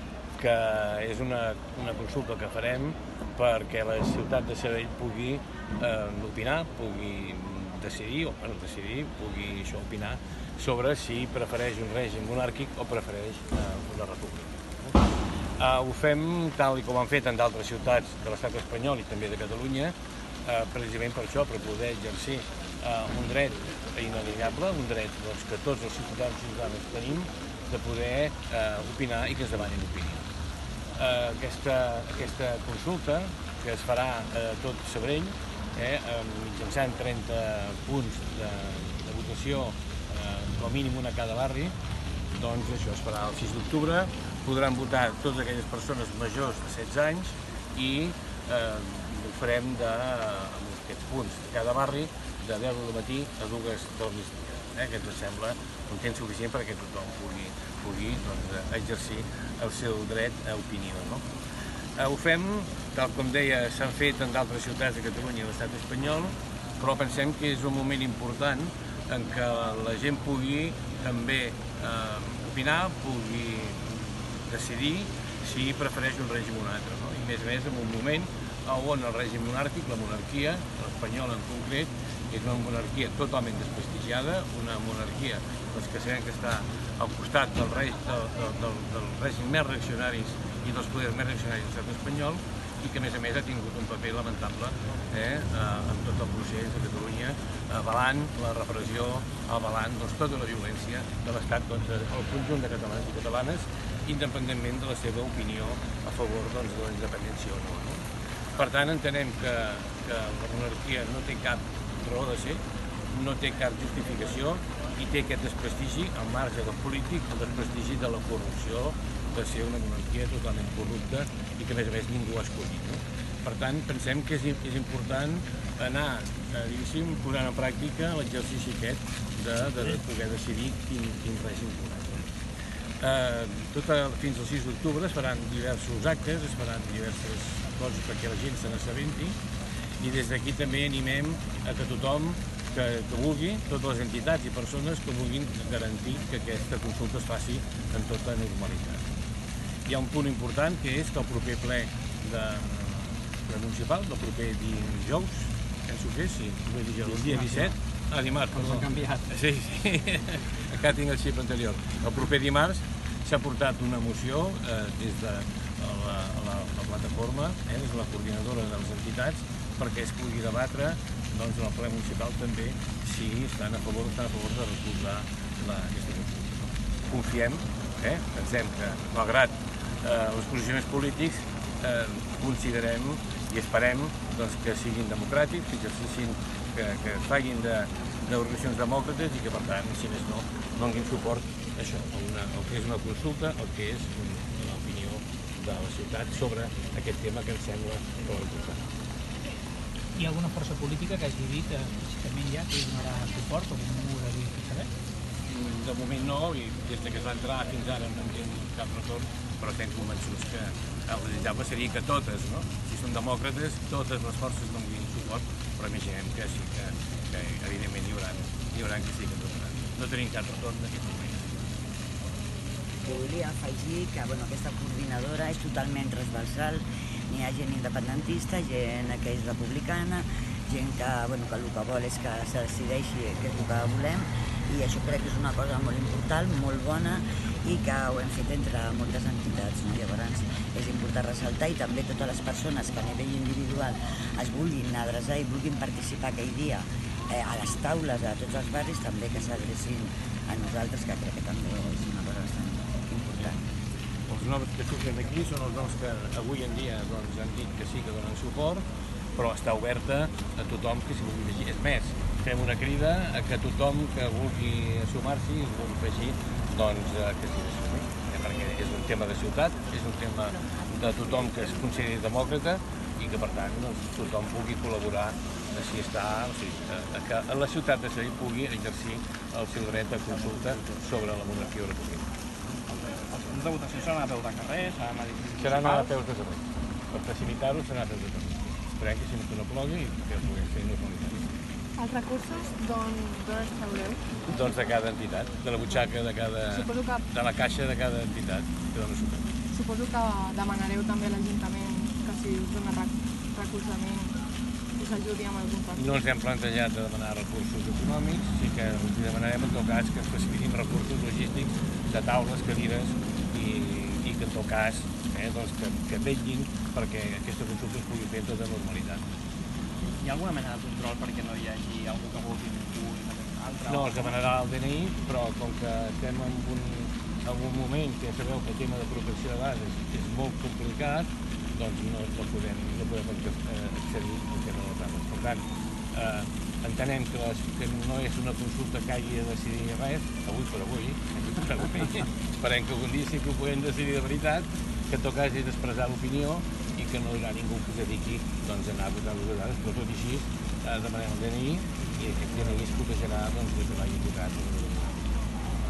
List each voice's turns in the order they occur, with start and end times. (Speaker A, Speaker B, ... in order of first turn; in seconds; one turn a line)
Speaker A: 0.4-14.9
Speaker A: 15.6-30.2
Speaker A: 30.9-41.7
Speaker A: 42.3-61.2
Speaker A: 62.0-108.0
Speaker A: 108.5-112.6
Speaker A: 113.1-132.3
Speaker A: 133.0-139.4
Speaker A: 140.0-149.1
Speaker A: 149.8-198.8
Speaker B: 158.6-159.2
Speaker C: 200.2-204.9
Speaker A: 205.5-221.7
Speaker D: 223.0-253.6
Speaker A: 254.3-282.2
Speaker B: 282.9-286.1
Speaker A: 285.6-291.5
Speaker E: 291.9-294.3
Speaker A: 294.4-299.5
Speaker E: 296.7-297.2
Speaker E: 299.7-304.4
Speaker E: 305.0-306.1
Speaker A: 305.9-319.2
Speaker B: 320.2-324.3
Speaker A: 323.9-355.2